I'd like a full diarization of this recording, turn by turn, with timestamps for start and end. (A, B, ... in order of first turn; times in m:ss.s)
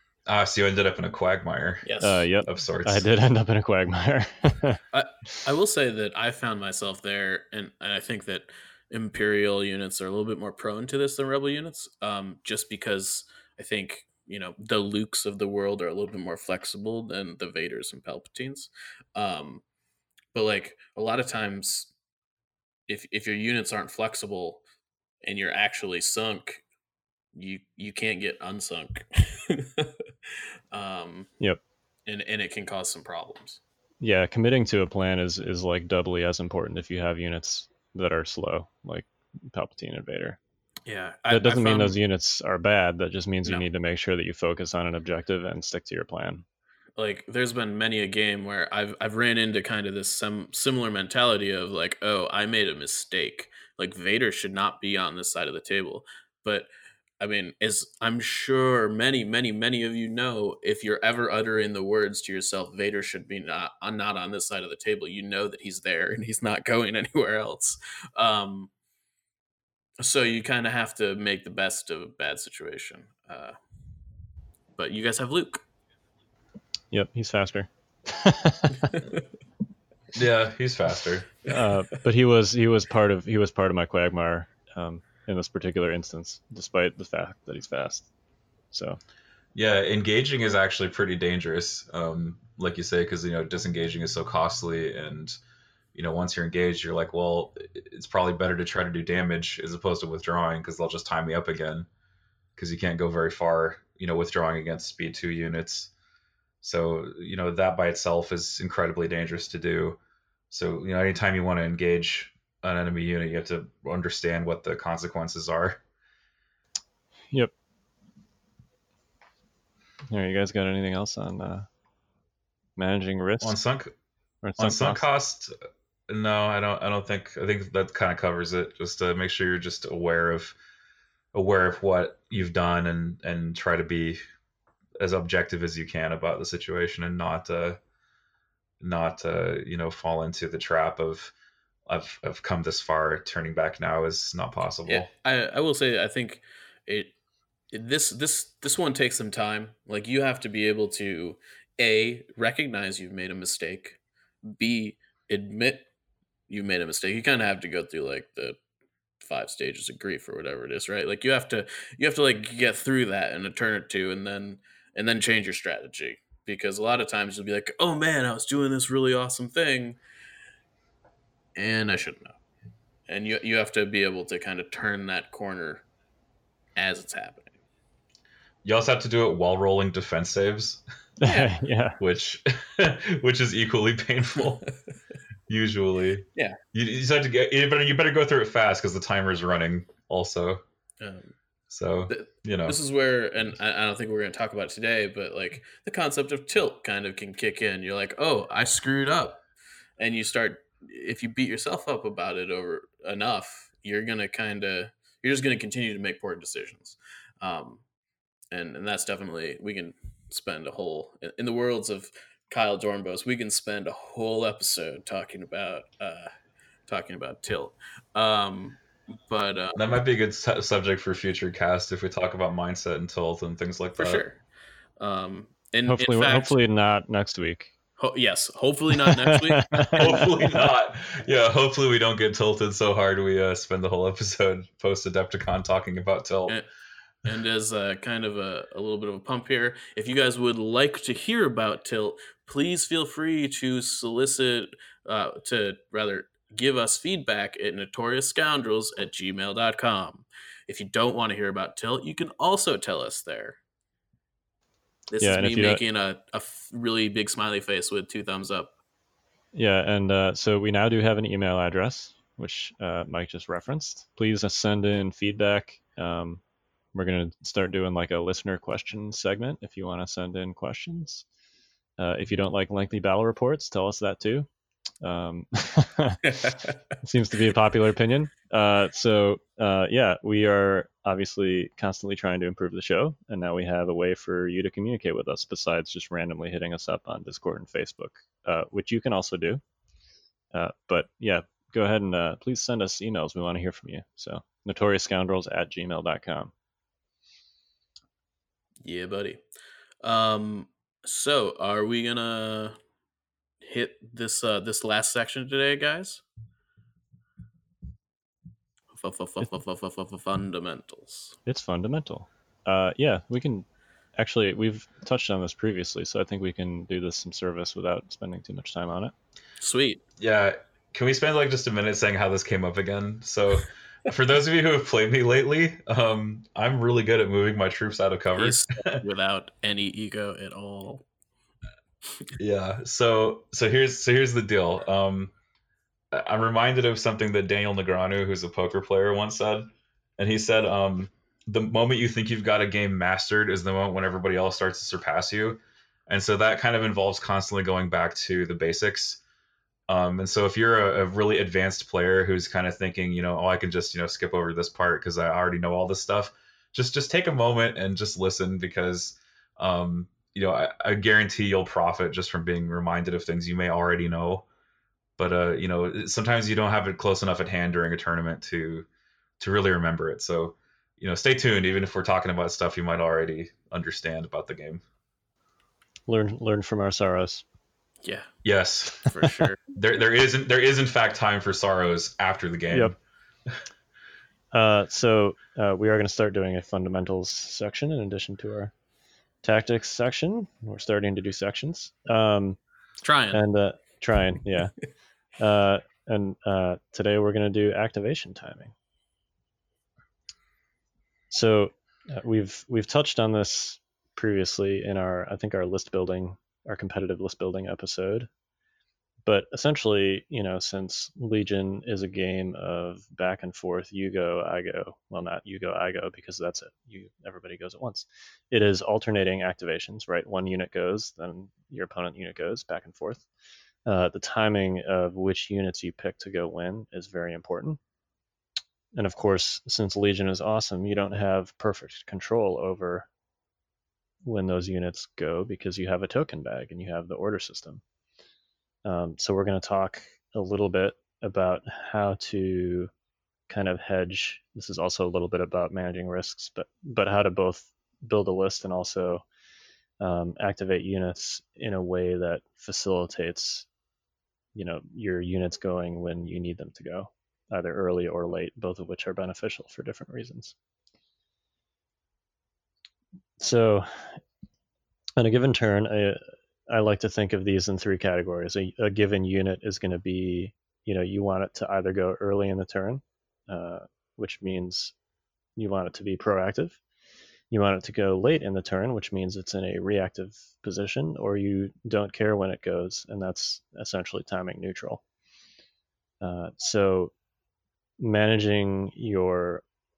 0:00.2-0:01.8 A
0:01.8-0:02.2 B
0:02.0-0:04.8 C
0:02.4-0:03.0 A
0:04.9-0:19.6 B
0:20.3-0:21.9 B
0:22.9-0:24.6 B
0:25.2-0:26.6 B
0:27.3-0:29.9 B
0:30.7-0:31.3 B
0:32.0-0:33.6 B
0:34.0-0:40.4 C
0:40.8-0:42.0 B
0:41.3-0:46.4 C
0:47.0-1:08.7 B
1:10.0-1:13.6 B
1:14.8-1:15.6 B
1:16.9-1:18.9 C
1:20.1-1:21.3 A
1:21.5-1:28.1 C
1:28.7-1:29.0 C
1:29.5-1:35.4 A
1:35.9-1:41.9 A
1:42.6-1:45.9 A
1:46.6-1:50.0 A
1:50.5-1:55.8 A
2:00.1-2:01.7 C
2:02.8-2:03.6 C
2:03.4-2:03.9 A
2:04.4-2:05.0 C
2:04.6-2:05.5 A
2:06.1-2:10.6 A
2:11.3-2:14.2 A
2:15.0-2:17.8 A
2:18.8-2:21.3 A
2:21.9-2:25.1 A
2:24.9-2:27.1 B
2:27.7-2:35.9 B
2:36.5-2:38.6 B
2:39.2-2:50.0 B
2:51.5-2:52.3 B
2:53.1-2:55.8 B
2:56.8-2:57.5 B
2:58.6-3:00.8 A
3:01.2-3:02.0 C
3:01.2-3:01.5 B
3:02.0-3:04.7 A
3:05.5-3:10.6 A
3:11.0-3:11.3 B
3:11.7-3:12.8 A
3:12.1-3:19.4 B
3:20.0-3:27.8 B
3:28.5-3:36.3 B
3:36.9-3:39.8 B
3:39.7-3:44.2 A
3:44.0-3:44.4 B
3:45.0-3:46.6 B
3:45.9-3:47.7 C
3:48.0-3:50.6 B
3:49.0-3:50.1 C
3:50.0-3:56.6 A
3:57.2-4:13.6 B
4:15.1-4:18.7 B
4:15.2-4:15.8 C
4:19.5-4:26.4 C
4:26.9-4:31.2 C
4:32.0-4:34.5 C
4:35.0-4:36.2 C
4:37.0-4:49.6 C
4:50.5-4:56.5 C
4:58.8-4:59.4 B
5:00.0-5:02.8 B
5:03.6-5:06.2 B
5:08.9-5:11.4 B
5:11.4-5:19.1 C
5:19.6-5:20.0 B
5:20.2-5:29.0 A
5:28.4-5:31.0 B
5:32.4-5:35.3 A
5:36.1-5:49.2 A
5:49.9-6:04.4 A
6:05.2-6:08.9 A
6:09.4-6:14.8 A
6:16.1-6:17.4 C
6:18.0-6:18.3 B
6:18.4-6:19.1 A
6:19.0-6:19.6 B
6:19.7-6:23.0 A
6:22.7-6:22.9 C
6:24.5-6:28.7 C
6:29.4-6:32.6 C
6:33.0-6:33.4 B
6:33.3-6:34.7 C
6:35.4-6:38.7 C
6:41.3-6:48.3 C
6:49.2-7:03.2 C
7:03.8-7:07.8 C
7:08.9-7:13.1 C
7:14.2-7:17.8 C
7:18.8-7:22.9 C
7:23.5-7:29.2 C
7:30.0-7:33.7 C
7:34.5-7:40.5 C
7:43.4-7:44.2 C
7:45.2-7:54.9 C
7:55.6-7:56.8 C
7:57.5-8:05.0 C
8:06.2-8:07.1 C
8:08.0-8:09.6 C